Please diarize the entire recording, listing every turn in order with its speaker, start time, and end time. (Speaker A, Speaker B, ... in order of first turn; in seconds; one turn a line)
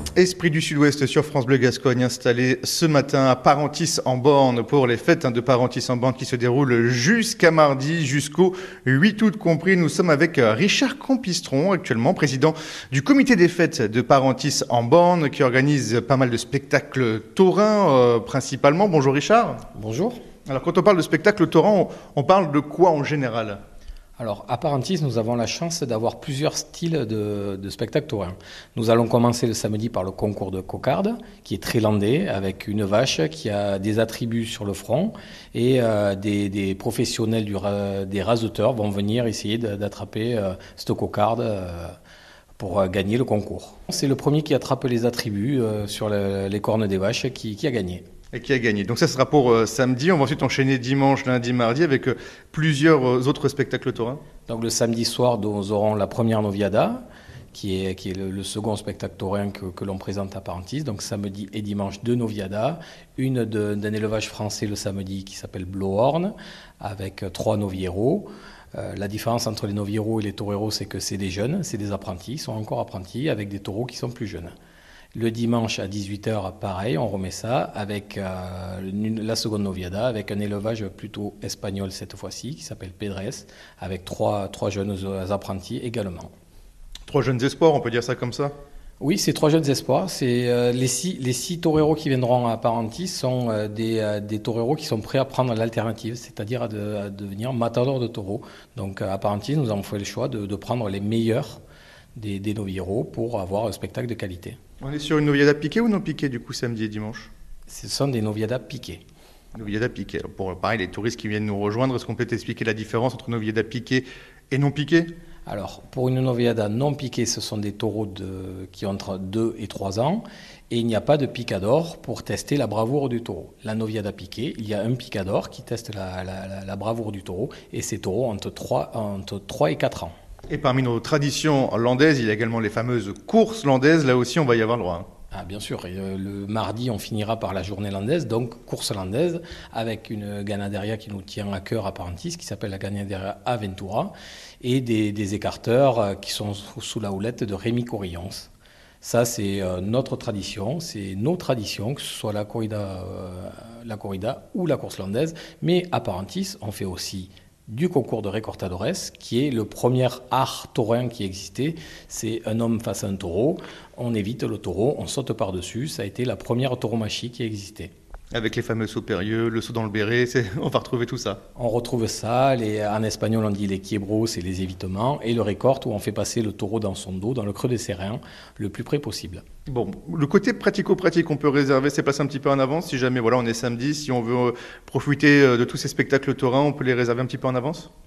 Speaker A: 0.2-19.6
Speaker B: 19.8-20.2
Speaker A: 20.5-23.6
Speaker B: 24.2-42.0
Speaker B: 42.6-48.0
Speaker A: 48.3-54.2
Speaker B: 54.5-74.5
Speaker B: 75.1-86.3
Speaker A: 87.1-88.5
Speaker B: 89.0-101.6
Speaker B: 102.2-104.6
Speaker A: 104.8-107.3
Speaker B: 107.7-109.0
Speaker A: 109.5-115.1
Speaker B: 115.5-130.2
Speaker A: 130.5-135.1
Speaker B: 135.3-148.5
Speaker B: 149.0-167.9
Speaker A: 168.3-171.4
Speaker B: 171.6-179.4
Speaker A: 179.7-187.9